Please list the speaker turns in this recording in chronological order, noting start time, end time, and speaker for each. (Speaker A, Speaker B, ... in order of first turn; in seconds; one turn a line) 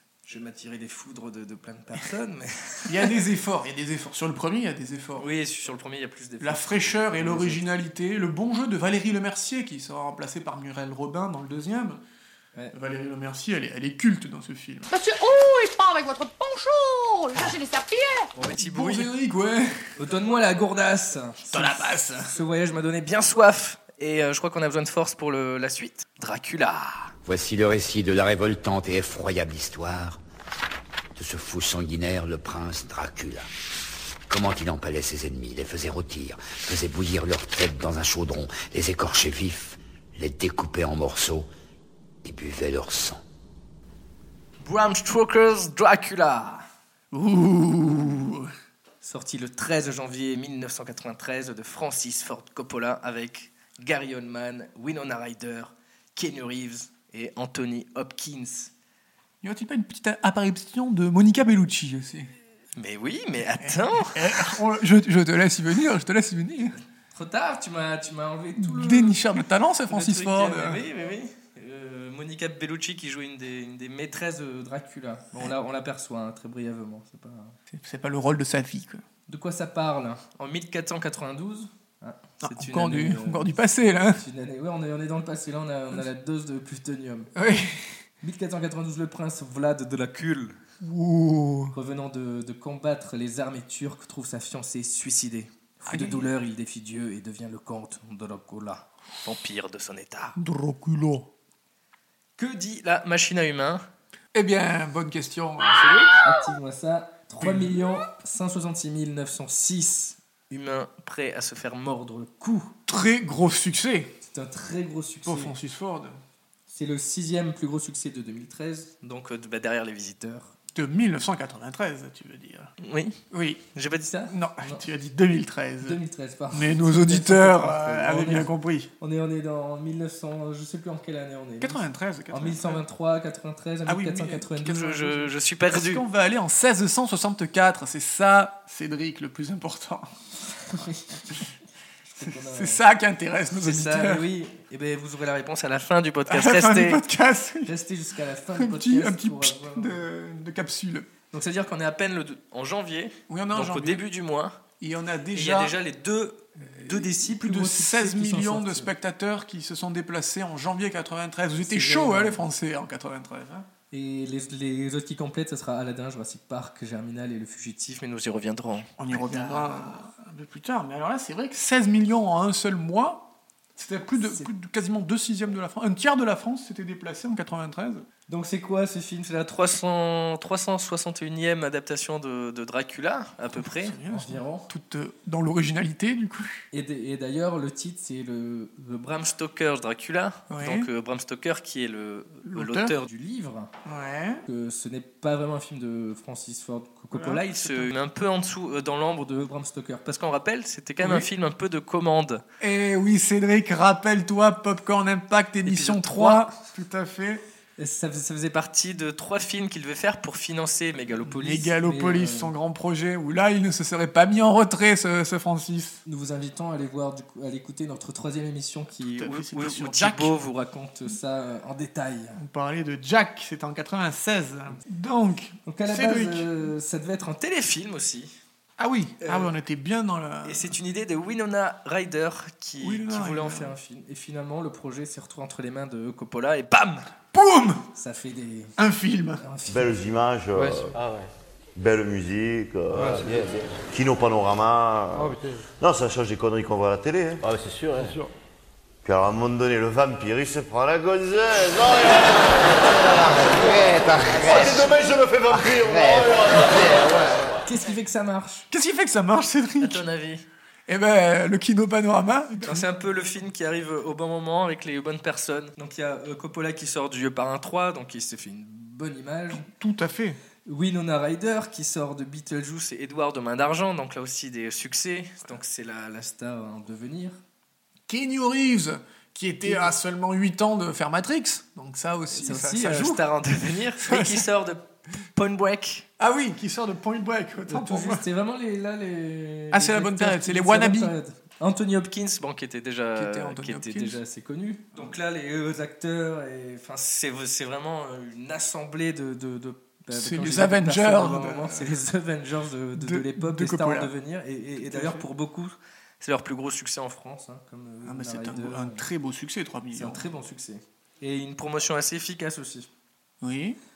Speaker A: 0.2-3.1
Speaker B: 2.9-5.2
Speaker A: 5.2-7.6
Speaker B: 6.4-12.0
Speaker B: 12.7-14.9
Speaker C: 14.9-18.3
Speaker A: 18.4-19.1
Speaker B: 18.6-19.8
Speaker A: 20.0-27.1
Speaker B: 21.5-22.3
Speaker D: 27.2-30.2
Speaker D: 31.2-33.5
Speaker D: 34.3-41.5
Speaker D: 42.2-43.2
Speaker A: 44.6-46.6
Speaker B: 47.1-48.5
Speaker A: 49.0-58.7
Speaker B: 59.4-62.3
Speaker A: 62.8-64.5
Speaker B: 63.6-66.8
Speaker A: 67.1-69.2
Speaker B: 68.6-70.8
Speaker A: 69.9-77.5
Speaker B: 77.7-79.0
Speaker A: 79.3-83.5
Speaker B: 82.4-84.2
Speaker A: 84.2-87.3
Speaker B: 87.3-87.9
Speaker A: 88.2-90.6
Speaker B: 90.8-91.7
Speaker A: 91.7-100.4
Speaker B: 95.9-96.3
Speaker B: 100.4-101.3
Speaker A: 102.4-103.8
Speaker B: 104.3-106.1
Speaker A: 106.2-112.7
Speaker B: 107.4-107.9
Speaker B: 112.9-114.1
Speaker A: 114.2-115.5
Speaker B: 115.2-116.1
Speaker A: 116.7-120.5
Speaker B: 120.7-122.7
Speaker A: 122.8-123.2
Speaker B: 123.3-123.6
Speaker A: 123.7-124.8
Speaker B: 124.3-126.0
Speaker A: 125.8-128.5
Speaker B: 126.5-128.9
Speaker A: 129.0-131.8
Speaker B: 131.6-132.8
Speaker A: 132.3-136.0
Speaker B: 133.9-140.1
Speaker A: 140.7-141.4
Speaker B: 140.8-141.4
Speaker A: 142.1-142.8
Speaker B: 142.2-144.3
Speaker A: 143.6-147.0
Speaker B: 146.3-147.7
Speaker A: 147.6-150.0
Speaker B: 148.5-151.1
Speaker A: 151.3-154.6
Speaker B: 153.3-154.0
Speaker B: 154.8-155.8
Speaker A: 155.3-158.9
Speaker B: 156.6-163.7
Speaker A: 161.6-162.4
Speaker A: 163.9-169.9
Speaker B: 169.0-178.0
Speaker A: 178.3-184.7
Speaker B: 183.5-186.6
Speaker A: 186.7-193.7
Speaker B: 190.5-190.9
Speaker B: 192.5-192.9
Speaker B: 193.8-194.4
Speaker A: 194.5-202.4
Speaker B: 197.1-197.9
Speaker B: 201.0-201.3
Speaker B: 202.6-207.4
Speaker A: 205.6-206.5
Speaker A: 207.8-212.5
Speaker B: 211.2-216.0
Speaker A: 216.1-222.4
Speaker B: 219.1-220.3
Speaker B: 222.4-226.7
Speaker A: 225.7-228.3
Speaker B: 228.8-230.7
Speaker A: 229.2-229.5
Speaker A: 230.4-237.1
Speaker B: 232.8-233.8
Speaker B: 237.3-237.9
Speaker A: 237.9-238.7
Speaker B: 238.8-239.4
Speaker A: 239.4-239.9
Speaker E: 239.7-241.2
Speaker E: 241.8-248.2
Speaker E: 249.0-257.2
Speaker A: 257.6-258.7
Speaker B: 258.7-260.0
Speaker A: 259.8-260.5
Speaker B: 260.9-262.9
Speaker A: 262.6-269.6
Speaker B: 269.5-270.4
Speaker A: 270.6-277.4
Speaker B: 278.1-283.2
Speaker A: 282.3-286.1
Speaker B: 284.0-284.5
Speaker B: 286.2-288.2
Speaker A: 287.7-309.0
Speaker B: 289.7-291.1
Speaker B: 293.1-294.2
Speaker B: 300.1-301.9
Speaker B: 302.9-304.1
Speaker B: 304.8-305.3
Speaker B: 308.0-310.3
Speaker A: 309.9-312.9
Speaker B: 313.4-313.8